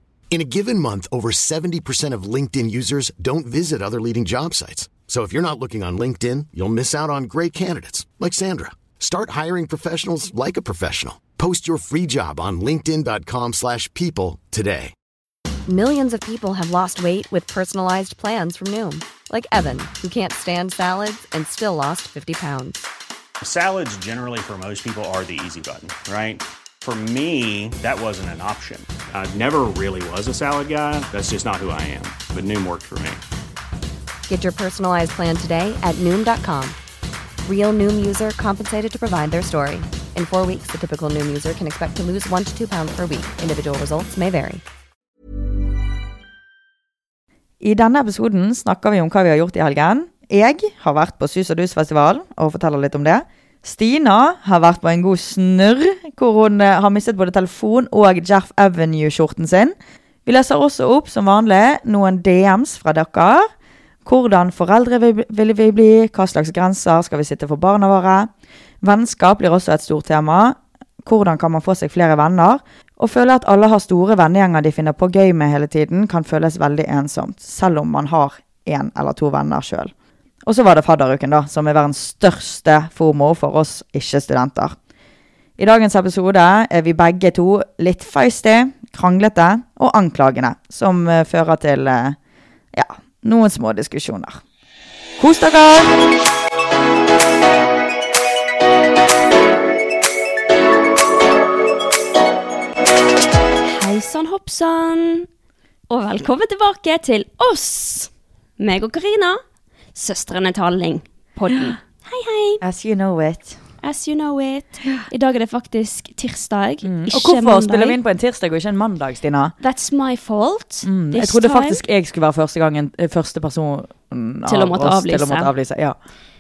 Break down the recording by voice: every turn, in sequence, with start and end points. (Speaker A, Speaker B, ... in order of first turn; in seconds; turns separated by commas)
Speaker A: 0.3-14.9, Speaker B: 15.7-22.9, Speaker C: 23.4-33.2, Speaker B: 34.3-36.8, Speaker B: 37.4-44.6, Speaker D: 47.6-59.8, Speaker D: 60.3-63.5, Speaker D: 64.0-79.9, Speaker D: 80.5-84.8, Speaker D: 85.6-92.2, Speaker D: 92.7-94.4, Speaker D: 95.2-96.0, Speaker E: 103.6-105.3, Speaker E: 105.9-109.4, Speaker E: 110.0-112.6, Speaker D: 112.6-113.6, Speaker E: 113.8-118.0, Speaker D: 116.8-119.5, Speaker E: 119.6-121.8, Speaker D: 120.8-126.0, Speaker E: 124.5-125.5